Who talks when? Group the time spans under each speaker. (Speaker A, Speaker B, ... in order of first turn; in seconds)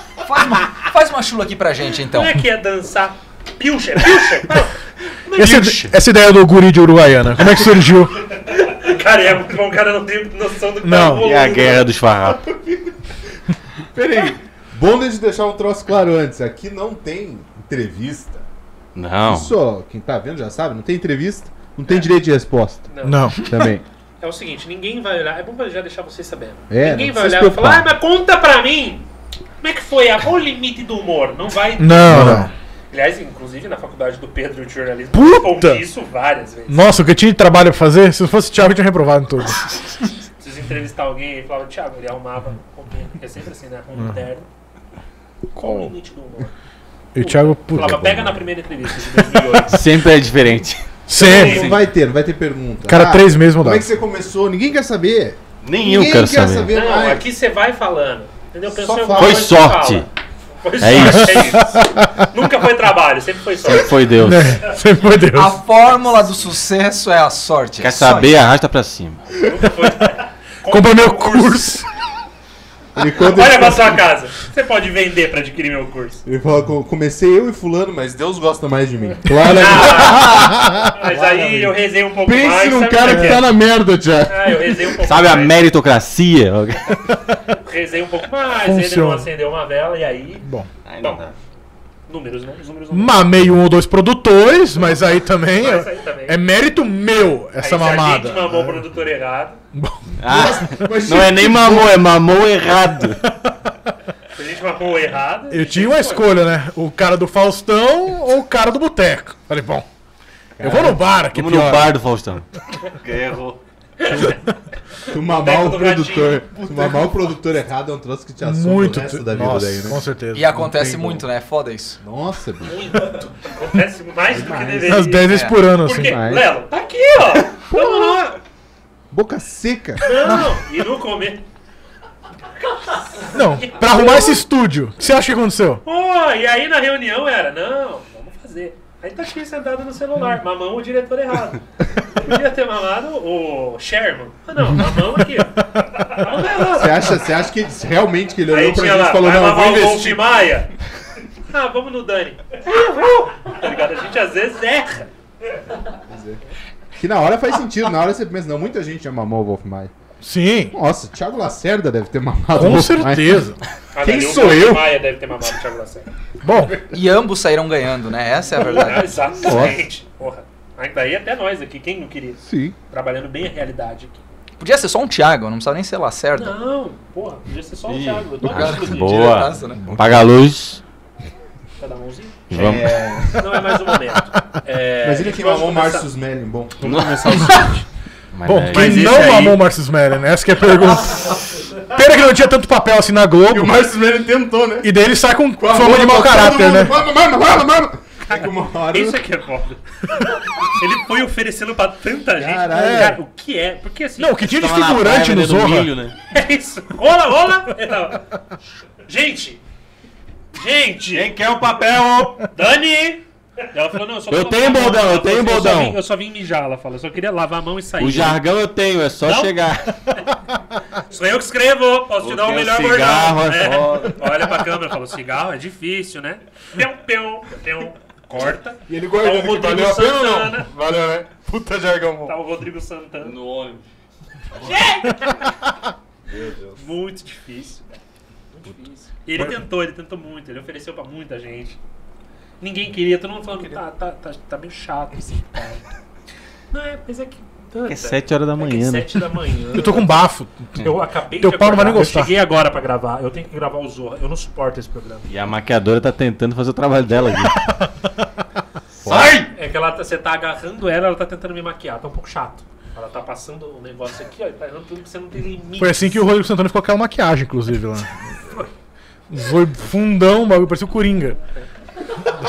Speaker A: 0.2-2.4, 65.3-68.3, 120.3-122.0, 125.3-125.5, 166.9-169.5, 174.6-176.6, 178.4-179.9
Speaker B: 1.9-5.8, 8.3-11.9, 22.9-23.4, 24.2-29.1, 29.6-36.9, 40.4-44.5, 45.6-46.5, 47.2-49.9, 51.1-51.8, 56.7-60.1, 60.6-64.1, 69.4-71.8, 73.2-76.2, 79.4-83.5, 84.3-85.6, 87.5-90.5, 91.0-91.3, 92.1-93.3, 95.6-96.4, 97.6-99.6, 104.3-106.3, 114.0-114.4, 115.2-116.5, 122.7-128.4, 130.0-131.4, 132.7-134.4, 135.8-147.3, 148.5-150.7, 151.5-155.1, 163.9-166.1, 168.6-174.2, 176.3-179.2, 181.8-182.4, 183.4-186.1, 186.8-187.8, 188.7-189.6, 198.3-204.6, 206.3-208.3, 209.1-209.6, 210.6-211.3, 212.5-218.4, 219.2-219.6, 220.9-230.7, 232.2-233.4, 234.6-235.5, 236.8-241.8, 242.6-245.9, 246.7-250.2, 250.8-255.3, 259.5-266.3
Speaker C: 5.4-8.2, 10.8-11.3, 23.0-23.5, 31.8-32.5, 35.1-35.9, 36.7-39.8, 45.5-45.9, 47.1-48.4, 51.1-51.8, 52.9-53.9, 60.9-62.3, 64.2-65.6, 70.7-71.9, 79.7-81.8, 83.0-83.5, 88.6-89.3, 90.4-90.7, 92.9-98.8, 99.7-100.5, 105.5-109.9, 110.6-112.0, 118.4-120.6, 124.9-126.2, 133.3-135.8, 160.2-160.8, 162.5-164.8, 166.4-166.8, 187.2-187.8, 188.4-193.8, 194.8-197.0, 202.7-203.2, 204.2-205.9, 249.7-252.3, 265.8-268.6, 269.3-271.4
Speaker D: 5.4-5.9, 11.2-12.4, 18.9-19.6, 49.7-50.8, 55.6-56.7, 59.1-60.1, 60.8-61.6, 63.6-64.6, 67.8-69.2, 85.0-87.0, 90.8-91.3, 100.2-103.2, 111.3-113.6, 177.9-180.8, 182.5-183.1, 186.8-187.7, 188.3-189.4, 204.5-206.2, 211.1-212.4, 214.3-216.0, 218.0-220.1, 222.2-224.3, 233.2-233.8, 247.9-249.3, 255.3-257.6, 259.0-259.5
Speaker E: 12.3-13.4, 13.9-18.4, 19.3-22.9, 23.4-23.8, 26.7-27.9, 32.1-32.5, 51.1-57.3, 58.7-59.6, 73.0-74.0, 76.2-80.9, 82.2-85.0, 100.2-101.9, 110.6-111.0, 114.1-114.4, 115.0-121.3, 122.0-122.8, 124.3-125.1, 125.9-126.5, 127.7-128.2, 129.1-130.0, 146.7-150.4, 156.1-156.4, 157.0-159.9, 160.7-163.5, 164.3-164.8, 169.5-169.8, 172.4-172.8, 182.5-183.7, 185.0-186.8, 193.5-194.9, 195.6-199.2, 202.3-203.2, 228.9-232.4, 236.3-236.8, 243.5-243.8, 259.0-259.4